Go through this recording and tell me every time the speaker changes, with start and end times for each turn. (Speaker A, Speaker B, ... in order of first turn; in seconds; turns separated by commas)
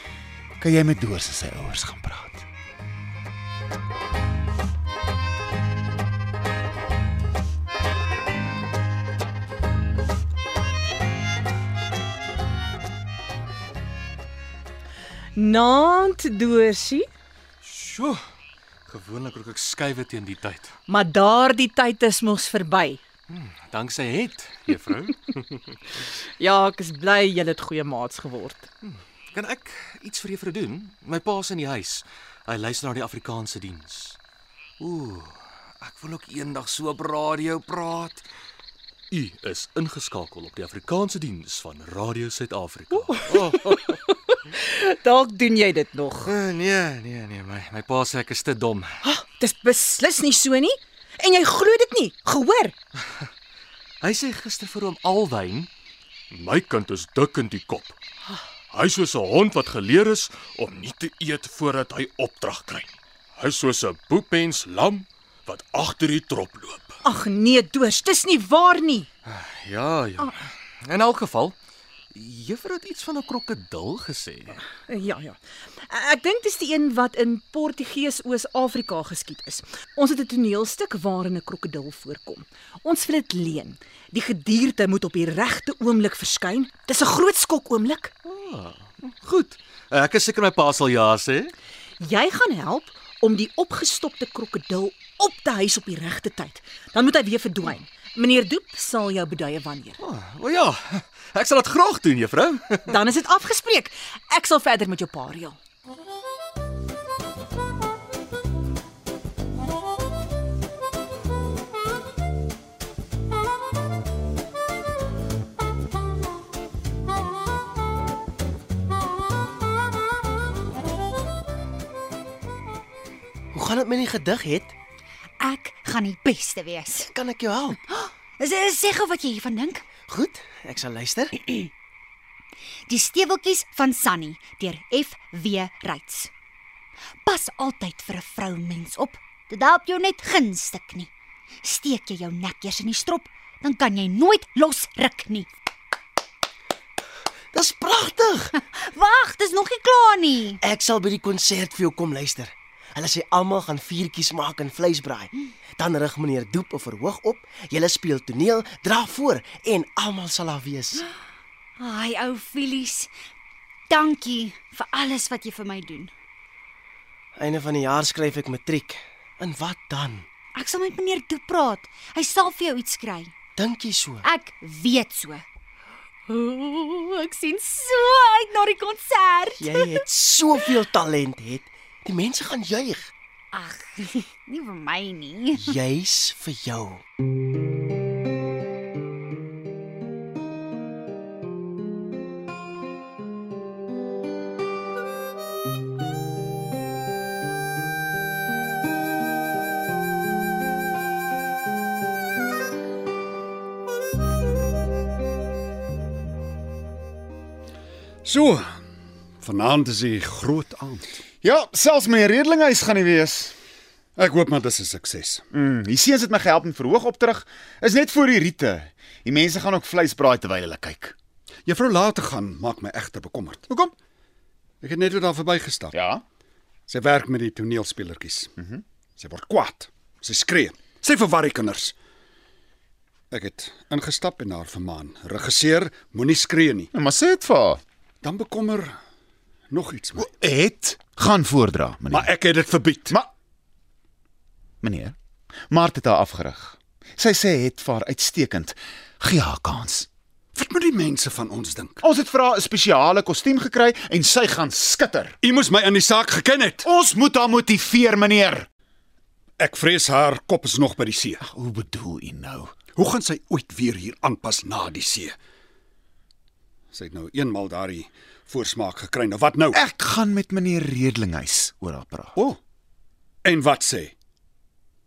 Speaker A: 0.6-2.5, Speaker B: 15.4-17.1, Speaker C: 17.6-18.2, Speaker C: 18.9-20.8, Speaker B: 20.9-23.0, Speaker C: 23.3-25.8, Speaker B: 26.4-28.7, Speaker C: 28.8-34.2, Speaker C: 34.8-38.2, Speaker C: 39.1-44.0, Speaker B: 42.9-46.3, Speaker C: 46.2-49.0, Speaker B: 49.0-52.8, Speaker C: 54.0-55.7, Speaker C: 56.3-58.0, Speaker C: 58.7-67.0, Speaker B: 67.0-69.1, Speaker C: 69.3-71.5, Speaker C: 72.1-74.6, Speaker B: 74.9-88.1, Speaker C: 88.3-91.5, Speaker B: 92.0-100.0, Speaker C: 100.0-103.0, Speaker B: 102.9-105.6, Speaker D: 123.5-124.7, Speaker E: 125.4-127.1, Speaker D: 127.0-127.8, Speaker E: 127.8-129.8, Speaker D: 130.1-131.7, Speaker E: 132.9-136.3, Speaker E: 137.2-141.1, Speaker E: 141.6-145.5, Speaker D: 147.5-148.5, Speaker E: 148.6-150.6, Speaker D: 150.6-161.0, Speaker E: 161.8-163.1, Speaker E: 163.9-166.1, Speaker D: 167.4-170.3, Speaker E: 170.6-173.3, Speaker D: 173.6-174.2, Speaker E: 174.2-175.4, Speaker B: 176.3-177.8, Speaker E: 177.5-179.8, Speaker D: 179.6-183.1, Speaker E: 183.5-185.8, Speaker D: 185.7-187.0, Speaker F: 208.2-208.6, Speaker F: 209.4-211.2, Speaker A: 211.4-213.6, Speaker F: 214.2-215.4, Speaker A: 215.5-221.2, Speaker F: 221.7-223.7, Speaker F: 224.8-225.9, Speaker A: 225.9-226.2, Speaker F: 226.9-228.5, Speaker A: 228.6-228.8, Speaker F: 229.2-231.9, Speaker F: 233.3-236.9, Speaker A: 236.9-237.8, Speaker F: 238.2-238.9, Speaker F: 239.7-240.2, Speaker A: 240.2-242.3, Speaker F: 242.2-243.1, Speaker A: 244.8-245.2, Speaker A: 245.7-250.1, Speaker F: 250.6-252.0, Speaker A: 252.0-255.4, Speaker F: 255.4-256.8, Speaker A: 256.8-258.7, Speaker F: 259.6-261.4, Speaker A: 261.4-262.7, Speaker F: 263.0-265.4, Speaker F: 266.9-269.8, Speaker A: 269.7-272.4, Speaker F: 273.4-274.1